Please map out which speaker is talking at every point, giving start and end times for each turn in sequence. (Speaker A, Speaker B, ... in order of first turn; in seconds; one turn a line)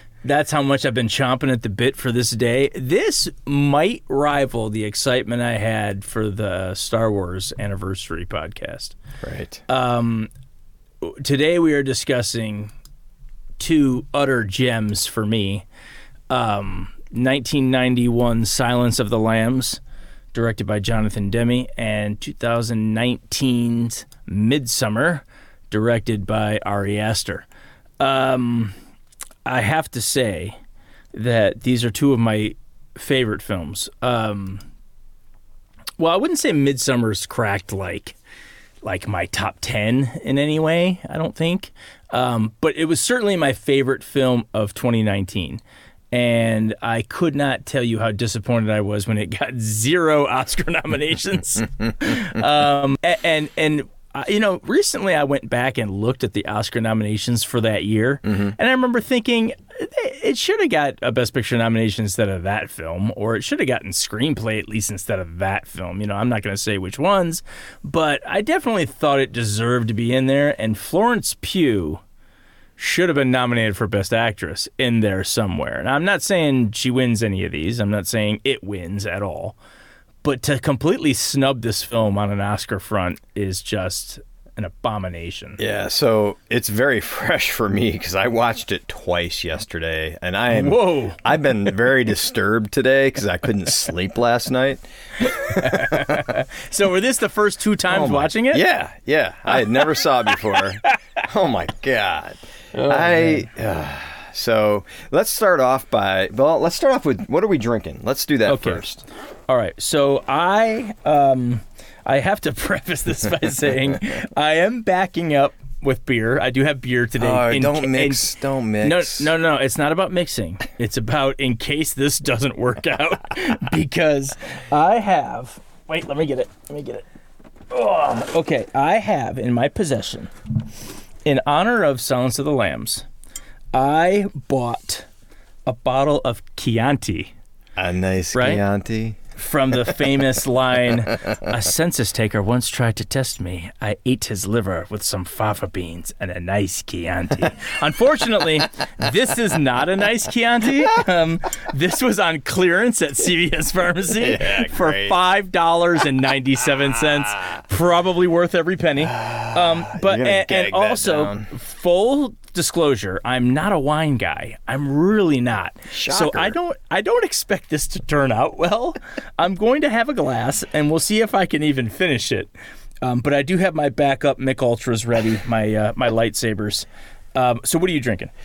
Speaker A: 0.2-9.0
Speaker B: 9.2-9.6
Speaker A: 9.7-10.3
Speaker A: 11.0-12.7
Speaker A: 13.6-15.7
Speaker A: 16.3-19.8
Speaker A: 20.3-27.5
Speaker A: 28.0-28.7
Speaker A: 29.5-30.6
Speaker A: 31.1-34.7
Speaker A: 36.0-38.2
Speaker A: 38.8-45.6
Speaker A: 46.1-72.0
Speaker B: 58.3-58.5
Speaker A: 72.8-79.6
Speaker A: 80.2-85.6
Speaker B: 85.6-96.3
Speaker A: 90.5-91.2
Speaker A: 95.3-98.6
Speaker B: 97.9-109.0
Speaker A: 100.5-101.0
Speaker A: 102.7-103.5
Speaker A: 108.5-108.8
Speaker A: 109.5-118.3
Speaker B: 117.2-119.3
Speaker A: 118.8-127.0
Speaker A: 127.7-130.3
Speaker A: 131.2-133.1
Speaker A: 133.7-135.1
Speaker A: 135.7-137.3
Speaker B: 137.8-139.2
Speaker A: 138.3-138.6
Speaker A: 139.4-172.5
Speaker B: 154.2-155.2
Speaker B: 159.0-161.5
Speaker B: 165.9-166.6
Speaker A: 173.0-178.3